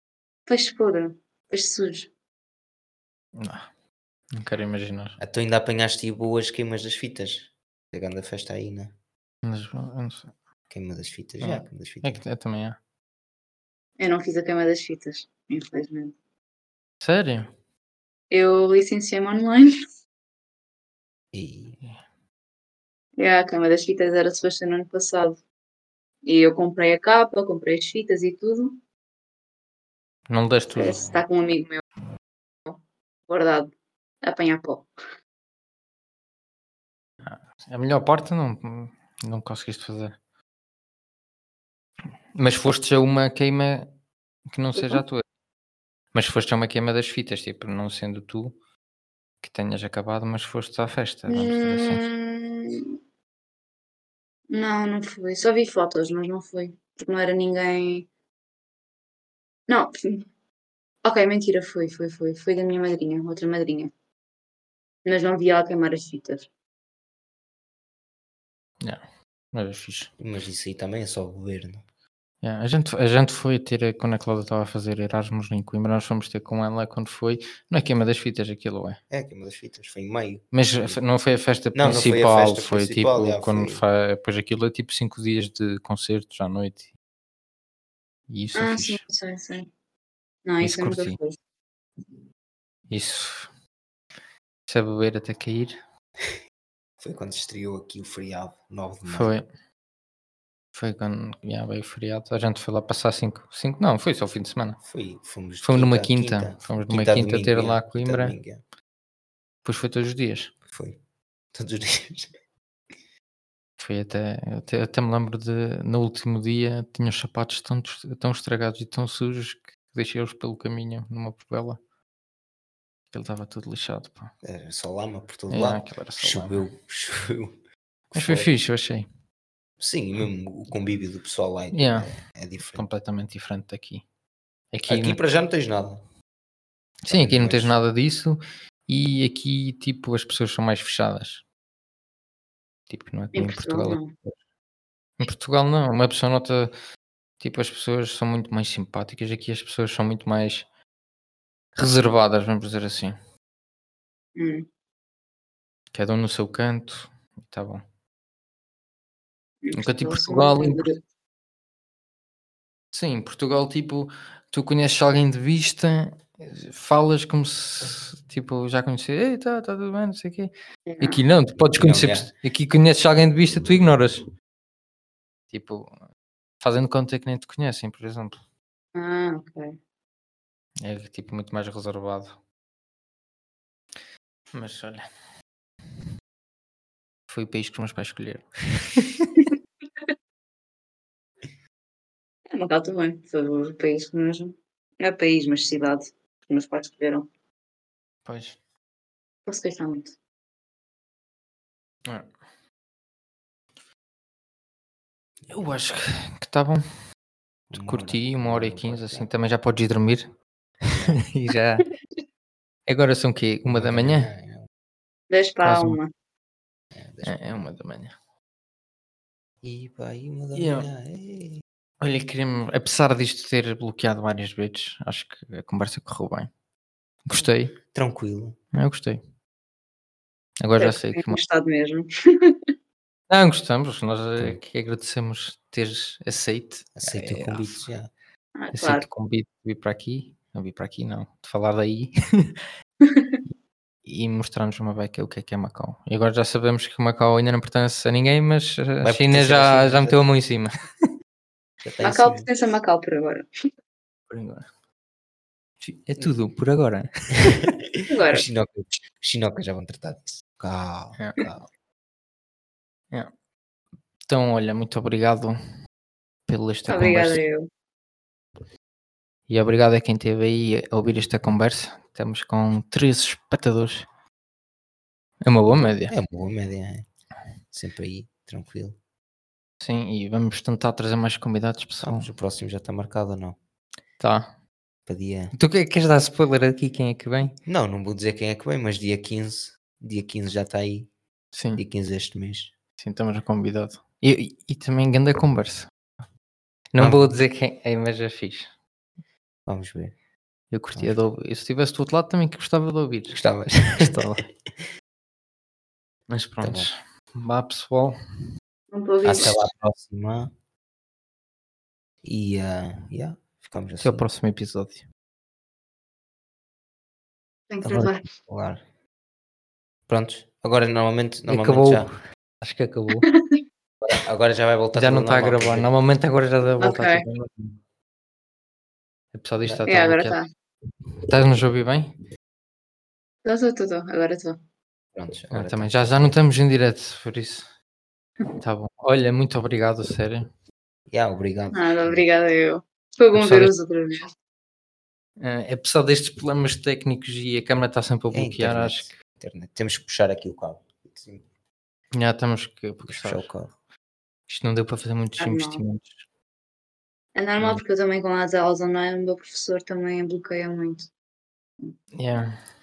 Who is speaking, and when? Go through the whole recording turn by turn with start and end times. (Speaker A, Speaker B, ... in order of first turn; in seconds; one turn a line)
Speaker A: 0.5-2.1
Speaker B: 3.4-3.7
Speaker B: 4.3-5.2
Speaker C: 5.2-8.9
Speaker B: 9.4-10.3
Speaker C: 10.7-12.2
Speaker B: 11.4-12.8
Speaker A: 14.0-16.1
Speaker B: 17.0-17.5
Speaker A: 18.3-19.8
Speaker C: 21.3-21.8
Speaker A: 23.2-25.4
Speaker A: 26.2-28.8
Speaker B: 30.3-31.2
Speaker A: 30.7-31.8
Speaker A: 33.3-34.9
Speaker B: 37.2-40.2
Speaker B: 42.3-43.9
Speaker B: 44.5-45.2
Speaker A: 44.7-45.0
Speaker B: 46.1-48.5
Speaker B: 49.4-52.0
Speaker A: 51.3-53.0
Speaker A: 54.5-58.1
Speaker A: 59.7-60.3
Speaker A: 61.0-63.9
Speaker A: 65.0-66.5
Speaker B: 69.5-70.1
Speaker C: 70.2-71.8
Speaker B: 72.4-79.0
Speaker C: 79.1-81.0
Speaker B: 80.5-86.9
Speaker C: 81.7-83.8
Speaker B: 88.3-89.0
Speaker A: 88.5-89.7
Speaker A: 90.4-91.3
Speaker B: 90.6-91.2
Speaker B: 92.9-93.5
Speaker B: 94.7-95.8
Speaker C: 97.0-99.3
Speaker B: 99.1-99.5
Speaker B: 100.7-104.8
Speaker C: 104.8-108.6
Speaker B: 105.6-108.3
Speaker B: 109.6-110.5
Speaker C: 110.7-111.0
Speaker C: 111.5-112.3
Speaker B: 113.8-121.8
Speaker B: 123.1-124.3
Speaker C: 124.4-127.5
Speaker B: 125.5-126.7
Speaker C: 128.1-128.5
Speaker B: 128.1-129.1
Speaker C: 129.8-132.9
Speaker B: 131.7-132.2
Speaker B: 132.7-134.0
Speaker B: 134.7-135.2
Speaker C: 134.9-136.0
Speaker B: 137.0-141.4
Speaker C: 137.1-137.7
Speaker B: 142.9-144.3
Speaker A: 143.3-144.1
Speaker B: 145.2-146.7
Speaker B: 147.4-150.7
Speaker B: 151.8-153.2
Speaker A: 151.8-152.1
Speaker A: 154.3-154.7
Speaker B: 155.9-157.8
Speaker A: 159.6-161.0
Speaker B: 159.7-160.9
Speaker B: 162.9-174.3
Speaker A: 170.9-171.2
Speaker C: 171.7-172.3
Speaker B: 175.5-175.9
Speaker B: 176.6-178.4
Speaker A: 178.9-179.8
Speaker B: 180.8-182.3
Speaker B: 184.5-185.0
Speaker B: 187.3-189.3
Speaker A: 192.5-197.3
Speaker B: 198.2-198.6
Speaker A: 199.4-200.1
Speaker B: 205.5-206.9
Speaker C: 207.7-209.3
Speaker B: 207.8-210.3
Speaker B: 210.9-211.8
Speaker C: 210.9-211.2
Speaker B: 212.9-214.3
Speaker C: 213.7-214.7
Speaker A: 215.3-216.1
Speaker B: 215.6-216.0
Speaker C: 216.9-217.6
Speaker B: 217.2-218.1
Speaker C: 219.6-221.6
Speaker B: 220.5-220.9
Speaker B: 222.0-226.5
Speaker B: 227.2-227.8
Speaker C: 227.9-228.6
Speaker B: 228.7-229.2
Speaker B: 230.6-231.4
Speaker A: 230.8-232.6
Speaker B: 233.3-237.8
Speaker C: 237.0-238.1
Speaker A: 238.5-239.1
Speaker B: 238.7-242.5
Speaker A: 243.0-243.4
Speaker B: 244.0-250.8
Speaker C: 249.0-250.3
Speaker C: 251.8-252.5
Speaker A: 252.0-253.5
Speaker B: 254.3-254.7
Speaker B: 255.8-257.6
Speaker C: 257.5-261.6
Speaker A: 258.1-258.4
Speaker B: 261.2-261.5
Speaker B: 264.2-265.6
Speaker B: 266.5-267.4
Speaker A: 266.9-267.7
Speaker B: 269.5-274.1
Speaker B: 275.4-276.1
Speaker C: 276.1-277.1
Speaker C: 277.7-278.9
Speaker B: 279.8-282.3
Speaker C: 282.0-283.6
Speaker B: 284.2-284.5
Speaker C: 285.1-285.5
Speaker B: 285.5-287.5
Speaker C: 287.6-291.1
Speaker B: 291.5-291.8
Speaker C: 291.8-292.7
Speaker B: 293.0-295.9
Speaker B: 296.9-298.7
Speaker C: 297.0-297.4
Speaker C: 299.7-300.1
Speaker B: 300.7-304.4
Speaker C: 303.3-304.2
Speaker B: 306.3-308.2
Speaker C: 306.6-306.9
Speaker A: 308.9-309.6
Speaker C: 309.2-310.5
Speaker C: 312.2-314.2
Speaker B: 314.0-315.0
Speaker A: 317.7-318.2
Speaker C: 317.8-318.8
Speaker C: 320.1-322.1
Speaker B: 321.5-323.2
Speaker A: 323.2-323.6
Speaker C: 324.0-325.9
Speaker B: 324.9-327.8
Speaker A: 326.8-327.2
Speaker B: 329.3-330.4
Speaker A: 329.9-330.5
Speaker B: 331.3-332.1
Speaker A: 333.4-334.6
Speaker C: 335.1-336.4
Speaker B: 335.5-337.7
Speaker B: 338.6-340.5
Speaker C: 341.1-342.2
Speaker A: 341.7-344.3
Speaker B: 343.3-343.7
Speaker B: 345.4-349.1
Speaker C: 348.3-351.4
Speaker B: 352.1-353.5
Speaker C: 353.1-353.7
Speaker B: 354.5-356.2
Speaker A: 355.4-355.8
Speaker A: 357.3-361.1
Speaker B: 362.1-362.6